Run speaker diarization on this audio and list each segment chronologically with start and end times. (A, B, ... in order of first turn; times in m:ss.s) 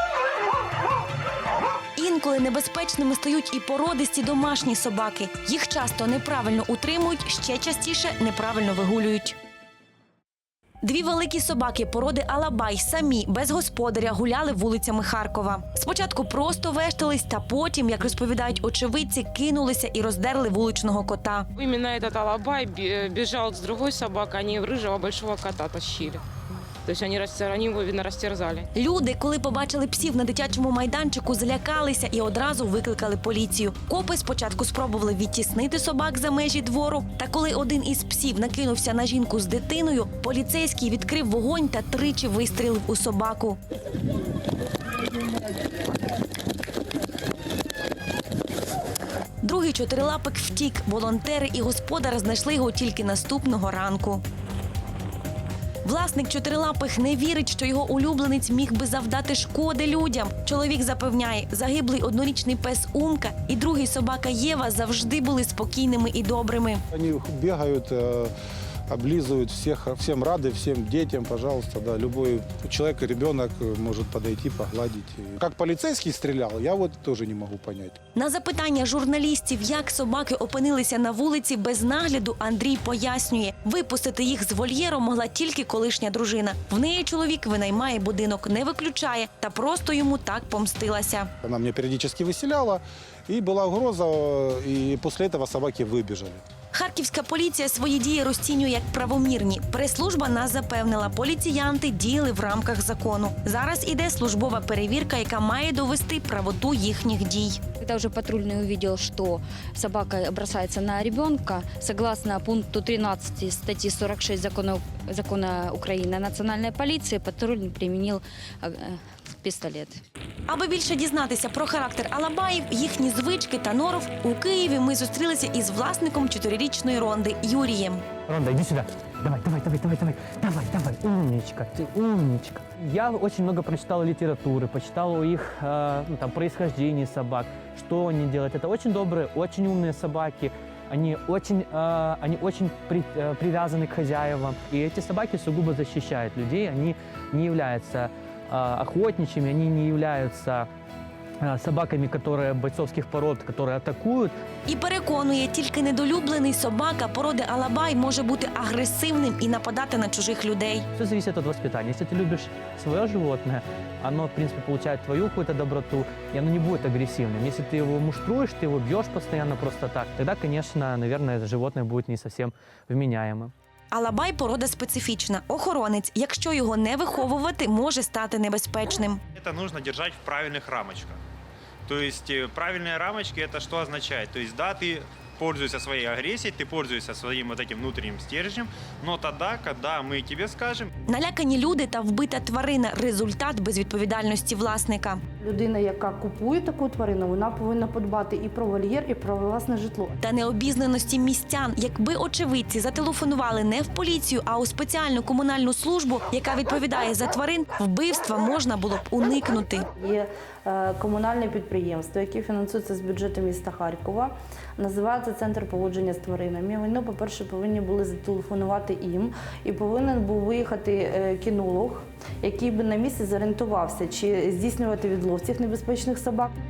0:02.0-0:09.4 A
0:10.8-0:21.5 A
0:21.6-0:26.2 B
0:26.8-0:28.7 B
0:28.8-0:43.6 A
0:49.4-0:54.2 A
0:55.8-1:06.8 A
1:06.9-1:08.3 C
1:08.9-1:18.0 C
1:18.2-1:31.3 A
1:31.4-1:36.4 C
1:36.7-1:47.6 A
1:47.8-2:00.0 D
2:00.5-2:08.0 A
2:08.3-2:30.7 E
2:31.4-2:34.4 E
2:34.7-2:40.9 A
2:41.0-2:53.5 E
2:53.9-2:59.2 A
2:59.4-3:01.2 F
3:01.9-3:10.9 F
3:11.1-3:15.2 A
3:15.4-3:20.2 G
3:20.2-3:29.9 A
3:30.0-3:46.5 G